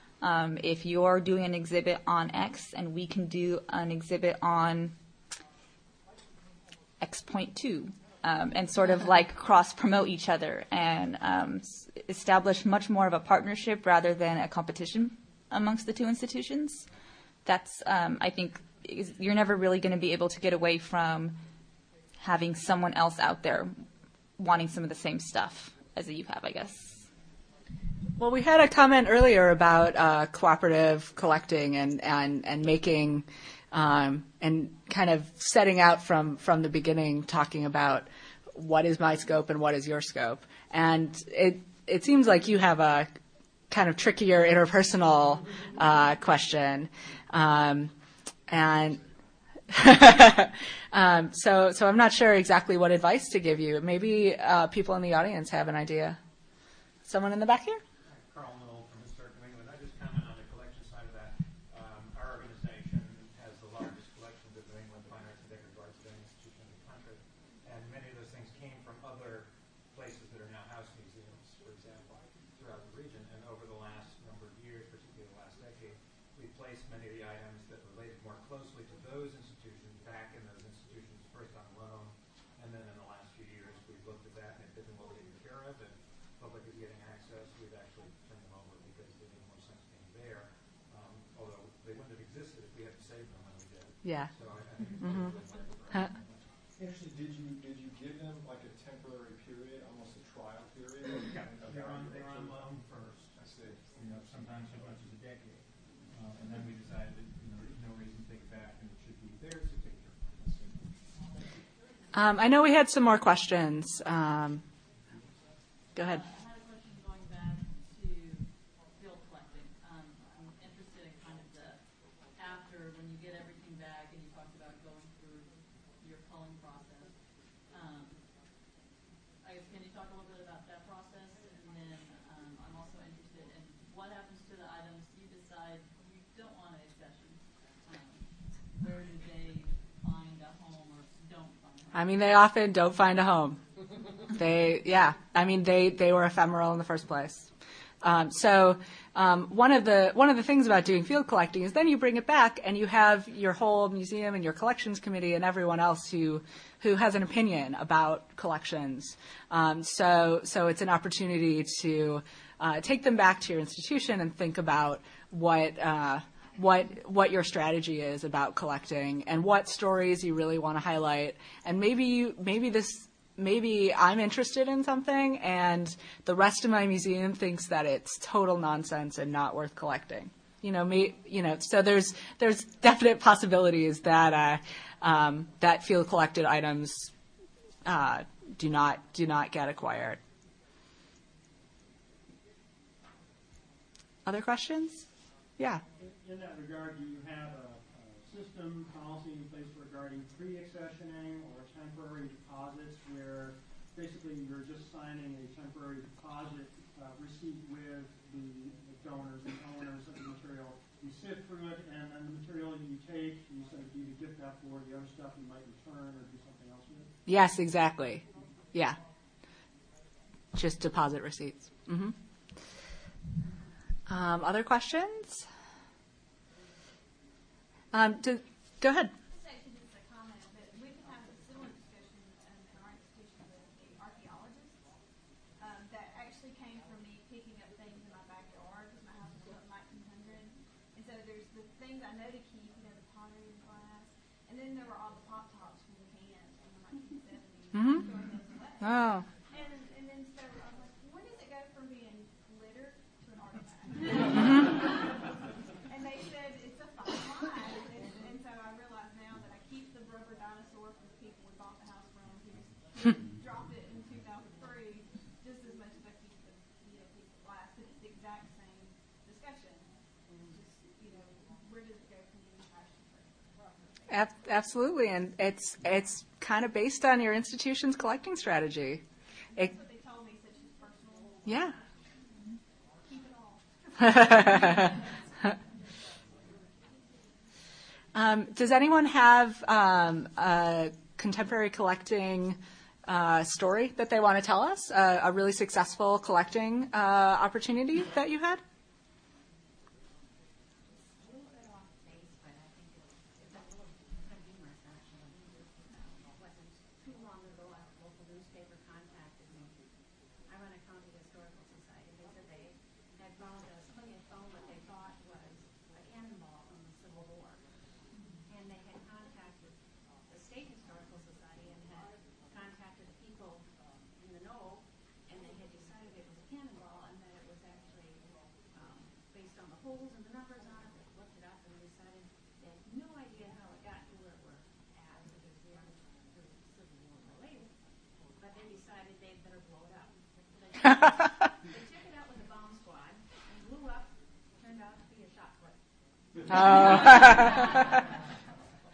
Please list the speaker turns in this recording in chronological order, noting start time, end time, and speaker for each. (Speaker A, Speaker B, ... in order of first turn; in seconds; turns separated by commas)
Speaker A: 0.2-4.9, Speaker A: 7.0-16.9, Speaker A: 17.4-21.4, Speaker A: 22.2-23.7, Speaker A: 24.4-27.1, Speaker B: 28.2-43.1, Speaker B: 43.7-47.9, Speaker B: 48.5-49.0, Speaker B: 49.7-56.2, Speaker B: 57.0-57.8, Speaker C: 58.0-96.6, Speaker B: 94.0-94.3, Speaker D: 96.8-102.7, Speaker C: 101.1-110.9, Speaker D: 103.4-104.8, Speaker B: 112.1-114.6, Speaker B: 115.9-116.2, Speaker E: 116.0-121.8, Speaker E: 122.3-128.2, Speaker E: 129.4-142.1, Speaker B: 141.9-143.6, Speaker B: 144.3-147.5, Speaker B: 148.0-187.1, Speaker B: 187.8-190.2, Speaker B: 194.2-195.0, Speaker F: 196.0-217.1, Speaker B: 217.2-219.0, Speaker B: 220.5-222.1, Speaker B: 224.1-225.4, Speaker B: 227.9-229.1, Speaker G: 229.3-234.9, Speaker G: 235.6-255.3, Speaker B: 247.7-248.0, Speaker B: 248.8-249.2, Speaker G: 255.9-274.3, Speaker B: 274.1-279.0, Speaker G: 279.5-281.9, Speaker B: 281.4-281.7, Speaker G: 283.0-285.6, Speaker B: 284.0-284.9, Speaker G: 286.8-287.1, Speaker B: 288.1-298.6, Speaker H: 300.7-309.8, Speaker H: 310.4-317.7, Speaker H: 318.4-337.7, Speaker H: 338.4-345.8, Speaker H: 346.3-348.0, Speaker B: 346.5-347.6